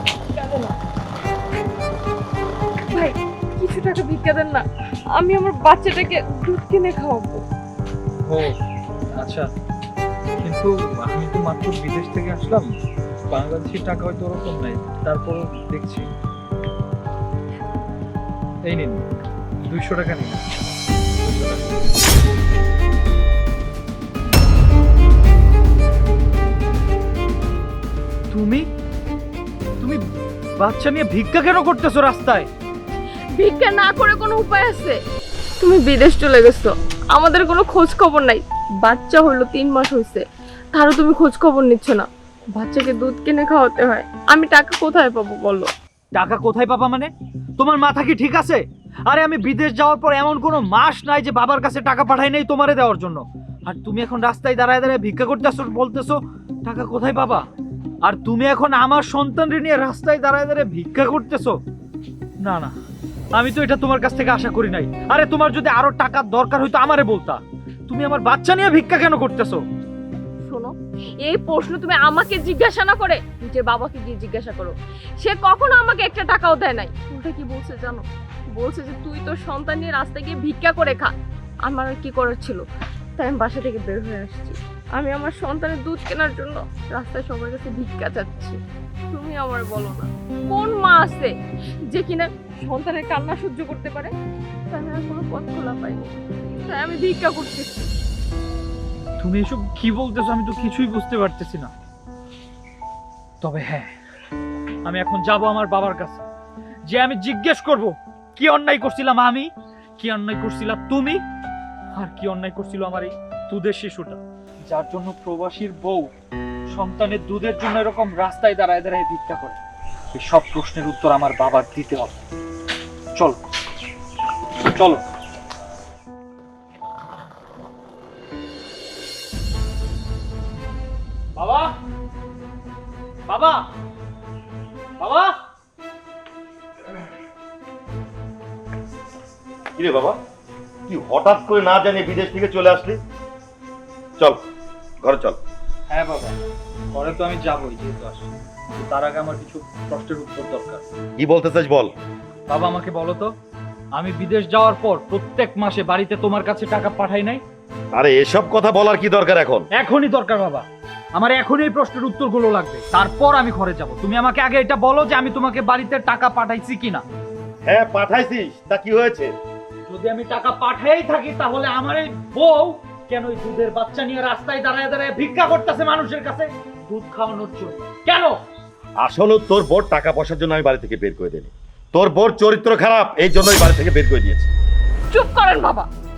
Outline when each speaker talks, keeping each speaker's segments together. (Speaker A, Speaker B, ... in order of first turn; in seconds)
Speaker A: 0.3-0.7, 2.9-4.6, 5.1-7.4, 33.4-35.0, 35.6-45.7, 70.5-81.1, 81.6-82.6, 83.2-88.6, 89.1-91.3, 91.9-94.1, 94.7-97.9, 185.1-185.9
Speaker B: 8.3-8.6, 9.2-9.5, 10.4-12.7, 13.3-16.1, 18.6-19.0, 19.6-20.4, 28.3-28.6, 30.6-32.5, 46.1-57.5, 58.0-61.6, 62.4-62.7, 63.3-69.6, 99.2-101.7, 103.4-103.9, 104.8-106.2, 106.9-111.2, 111.9-116.1, 116.7-119.6, 120.1-122.2, 124.7-125.0, 131.3-131.7, 133.3-133.7, 135.0-135.4, 145.9-146.3, 146.9-150.8, 152.5-153.3, 153.9-157.4, 159.7-167.0, 169.8-178.4
Speaker C: 139.7-140.2, 140.9-143.0, 144.2-144.4, 145.0-145.4, 151.2-151.9, 157.9-159.7, 167.6-169.3, 179.0-184.5